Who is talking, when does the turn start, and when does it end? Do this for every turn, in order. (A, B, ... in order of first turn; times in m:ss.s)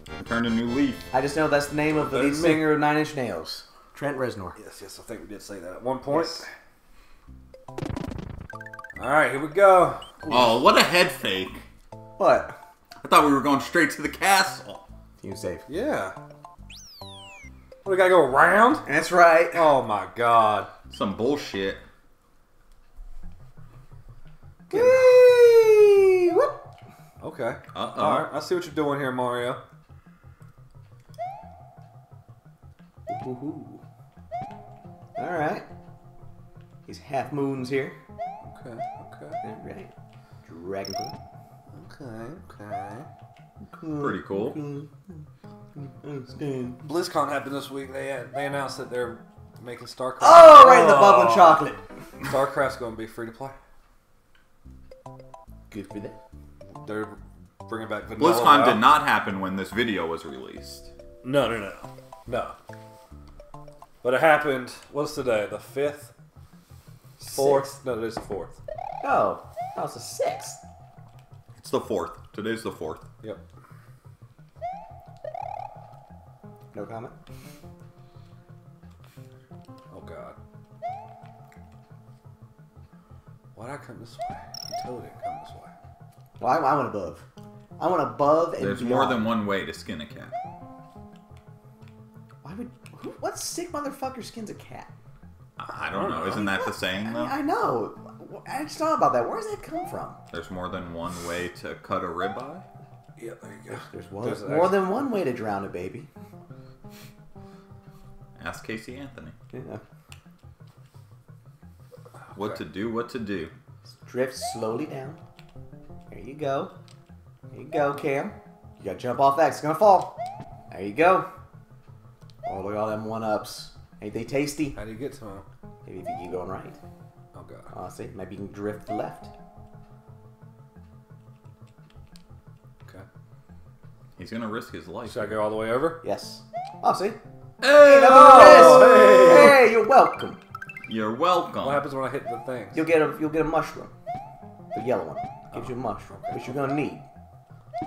0:00.2-0:01.1 A
0:01.1-0:04.6 B
0:01.9-0:02.8 C
0:04.6-0:06.5 C
0:06.1-0:06.5 B
0:09.0-0:10.0 C
0:10.2-0:10.6 B
0:10.3-0:11.6 A
0:12.2-0:12.6 B
0:13.0-0:14.8 A
0:15.2-0:15.7 B
0:15.7-0:16.2 C
0:17.8-0:18.9 C
0:18.8-0:19.7 B
0:19.5-0:20.7 C
0:20.8-0:21.8 A
0:24.7-0:25.2 C
0:24.7-0:26.6 B
0:27.2-0:29.6 C
0:27.7-0:28.3 A
0:33.1-0:33.8 B
0:35.2-0:35.6 B
0:36.9-0:38.0 B
0:38.4-0:39.4 C
0:39.4-0:39.9 B
0:40.4-0:41.2 B
0:41.7-0:43.1 C
0:43.7-0:45.2 B
0:44.0-0:44.6 A
0:45.8-0:46.8 B
0:46.8-0:51.6 C
0:50.2-0:51.8 B
0:52.2-0:53.6 C
0:55.7-0:56.2 B
0:56.7-0:58.9 C
0:58.2-1:00.9 A
1:01.2-1:02.6 C
1:04.0-1:06.1 C
1:07.2-1:08.6 C
1:07.3-1:07.7 B
1:09.0-1:10.6 B
1:11.6-1:13.1 A
1:16.7-1:17.2 B
1:19.9-1:20.4 C
1:23.6-1:25.7 C
1:26.4-1:27.2 B
1:27.8-1:29.4 B
1:28.6-1:30.3 A
1:32.4-1:34.9 B
1:35.6-1:37.4 A
1:35.8-1:36.4 C
1:36.3-1:40.2 B
1:40.3-1:42.6 A
1:43.2-1:44.9 C
1:43.7-1:46.1 B
1:48.4-1:49.4 A
1:49.5-1:49.8 B
1:52.3-1:53.5 A
1:54.0-1:55.2 B
1:56.1-1:56.7 B
1:57.5-2:00.2 B
2:00.7-2:01.3 B
2:02.4-2:04.8 B
2:04.7-2:05.5 C
2:05.8-2:06.8 B
2:07.4-2:07.7 C
2:07.7-2:09.3 B
2:14.2-2:15.4 A
2:15.0-2:16.0 C
2:16.0-2:17.2 B
2:17.6-2:18.6 A
2:17.7-2:19.7 C
2:17.8-2:20.4 B
2:20.9-2:21.9 A
2:21.6-2:22.8 C
2:22.7-2:23.9 B
2:24.7-2:27.0 B
2:25.5-2:26.8 C